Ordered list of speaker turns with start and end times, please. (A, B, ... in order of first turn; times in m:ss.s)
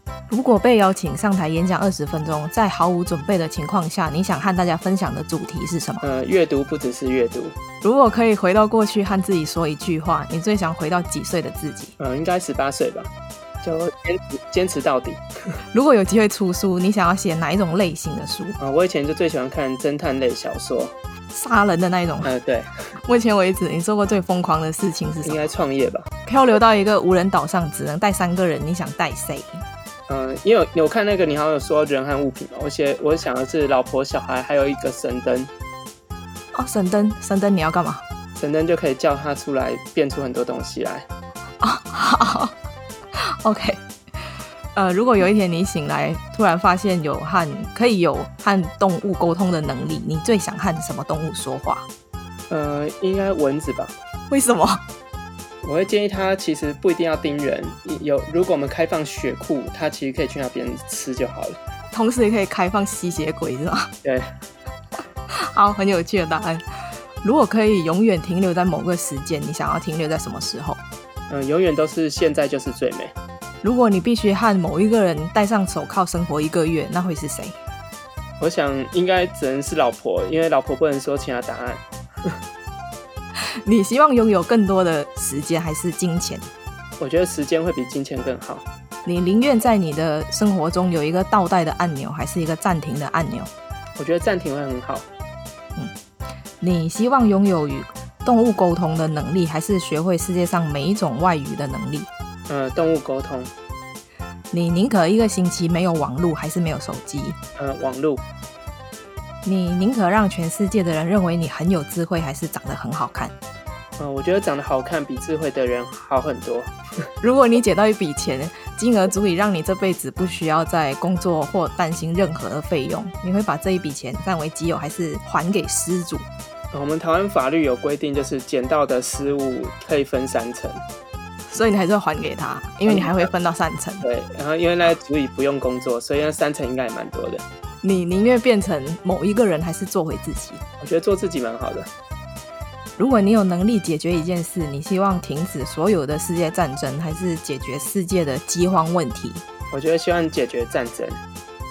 0:00.3-0:06.0 A
0:06.0-0:07.6 B
0:07.8-0:11.9 A
0:12.0-0:13.1 B
0:13.6-0:15.2 B
0:15.7-0:18.6 A
0:18.6-0:20.9 B
0:21.3-0:22.3 A
0:22.2-0:22.7 B
0:23.0-0:25.5 A
0:25.2-0:26.1 B
0:26.3-0:29.6 A
0:30.1-0:35.5 B
0:36.5-0:38.0 A
0:38.4-0:41.1 B
0:41.6-0:42.6 A
0:43.2-0:43.8 A
0:44.8-0:51.9 A
0:52.5-0:54.0 B
0:54.3-0:54.8 A
0:55.6-1:01.6 B
1:01.9-1:03.9 A
1:05.3-1:06.6 A
1:07.2-1:10.8 A
1:11.3-1:13.2 B
1:13.6-1:17.6 A
1:18.4-1:22.4 B
1:23.6-1:26.5 A
1:27.0-1:28.7 B
1:29.0-1:33.5 A
1:34.0-1:35.1 B
1:36.6-1:42.1 A
1:42.5-1:43.5 B
1:44.5-1:47.4 A
1:47.6-1:48.2 B
1:49.4-1:53.3 A
1:54.0-1:56.7 B
1:57.2-2:06.3 A
2:06.7-2:10.8 B
2:11.5-2:14.1 A
2:12.9-2:13.3 B
2:14.0-2:17.4 B
2:17.8-2:20.6 A
2:20.8-2:21.9 B
2:23.0-2:29.4 A
2:29.7-2:31.2 B